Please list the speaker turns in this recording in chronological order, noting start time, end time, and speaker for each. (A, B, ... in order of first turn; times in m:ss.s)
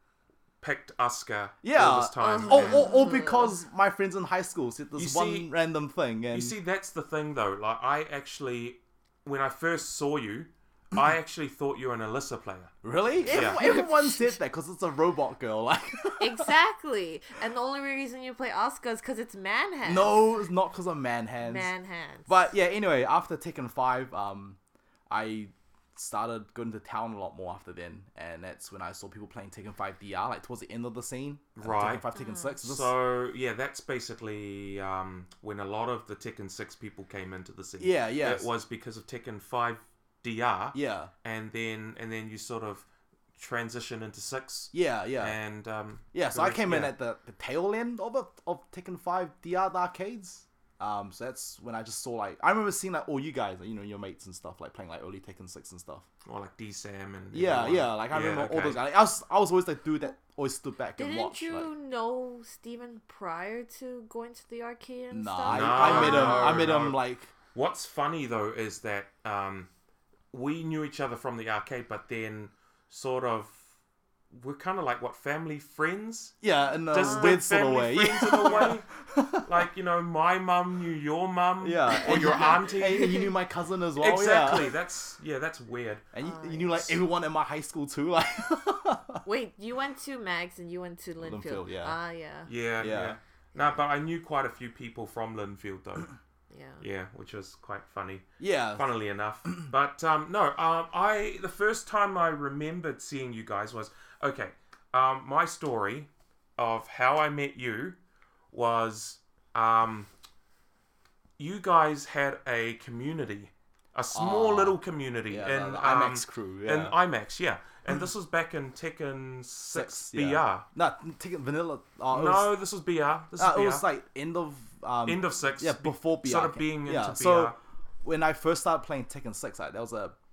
0:00.6-0:02.8 A
0:01.6-0:06.6 B
0:02.2-0:03.6 C
0:04.9-0:05.5 A
0:06.3-0:12.7 A
0:12.8-0:16.5 B
0:13.2-0:14.3 C
0:13.3-0:13.6 A
0:16.2-0:20.2 C
0:19.8-0:21.7 B
0:21.4-0:22.4 C
0:22.3-0:24.6 B
0:25.1-0:32.9 B
0:31.6-0:32.0 A
0:32.1-0:32.6 C
0:32.6-0:46.9 A
0:37.8-0:38.5 B
0:40.7-0:41.1 B
0:44.7-0:45.4 B
0:46.1-0:56.1 B
0:56.2-0:58.8 A
0:57.3-1:01.7 B
1:01.0-1:06.7 C
1:05.1-1:07.3 B
1:05.5-1:07.0 A
1:07.5-1:09.7 A
1:10.3-1:13.7 A
1:14.3-1:16.4 A
1:16.4-1:19.5 B
1:16.9-1:18.8 A
1:17.0-1:17.4 C
1:19.4-1:23.2 A
1:21.6-1:24.7 B
1:22.1-1:23.3 C
1:24.0-1:26.0 A
1:26.1-1:29.2 B
1:26.2-1:26.9 C
1:29.2-1:32.5 C
1:31.2-1:32.0 B
1:32.4-1:36.1 A
1:32.8-1:33.2 B
1:36.5-1:36.8 C
1:36.8-1:48.0 A
1:38.4-1:38.9 B
1:48.5-1:50.1 A
1:51.4-2:00.6 A
1:54.1-1:57.0 B
1:59.7-2:02.5 B
2:02.1-2:03.8 A
2:03.4-2:10.2 B
2:05.0-2:07.6 A